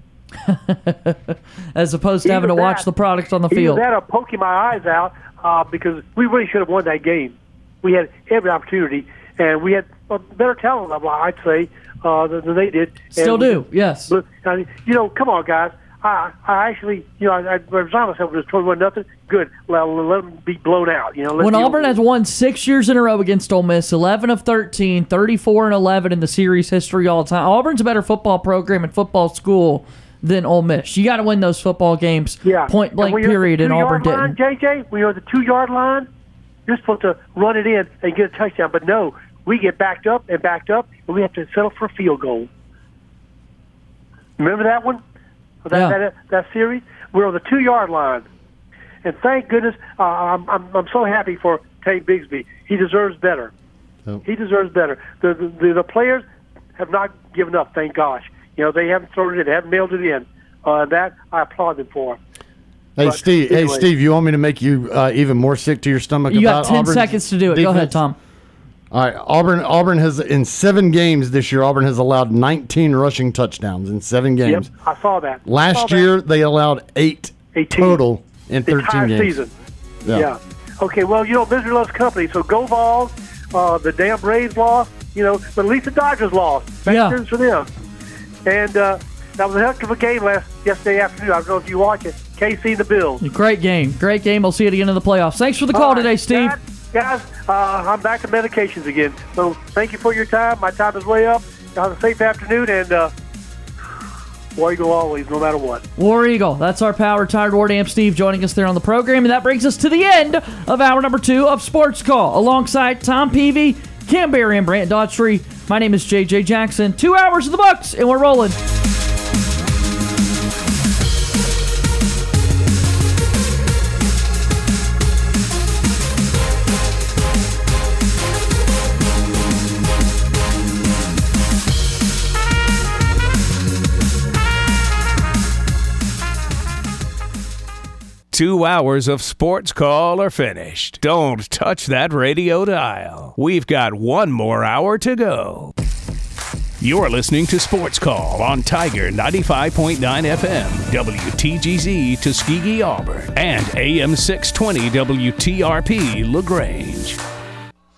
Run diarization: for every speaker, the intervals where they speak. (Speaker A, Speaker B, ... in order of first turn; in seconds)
Speaker A: 0.5-3.8, 13.2-14.1, 21.4-34.4, 45.7-46.0, 66.3-68.2, 86.9-87.2, 93.2-96.5, 106.0-118.6
Speaker B: 2.2-2.9, 3.5-22.0, 32.4-36.1, 36.7-42.5, 44.4-45.0, 45.6-48.2, 49.0-53.5, 54.2-56.2, 56.8-62.2, 63.0-63.9, 74.4-76.1, 77.5-78.0, 78.6-79.5, 80.1-87.7, 88.4-93.2, 95.7-103.1, 104.5-105.8
Speaker C: 63.0-68.0, 68.9-74.7, 75.5-79.4
Speaker D: 138.3-145.7, 146.8-157.2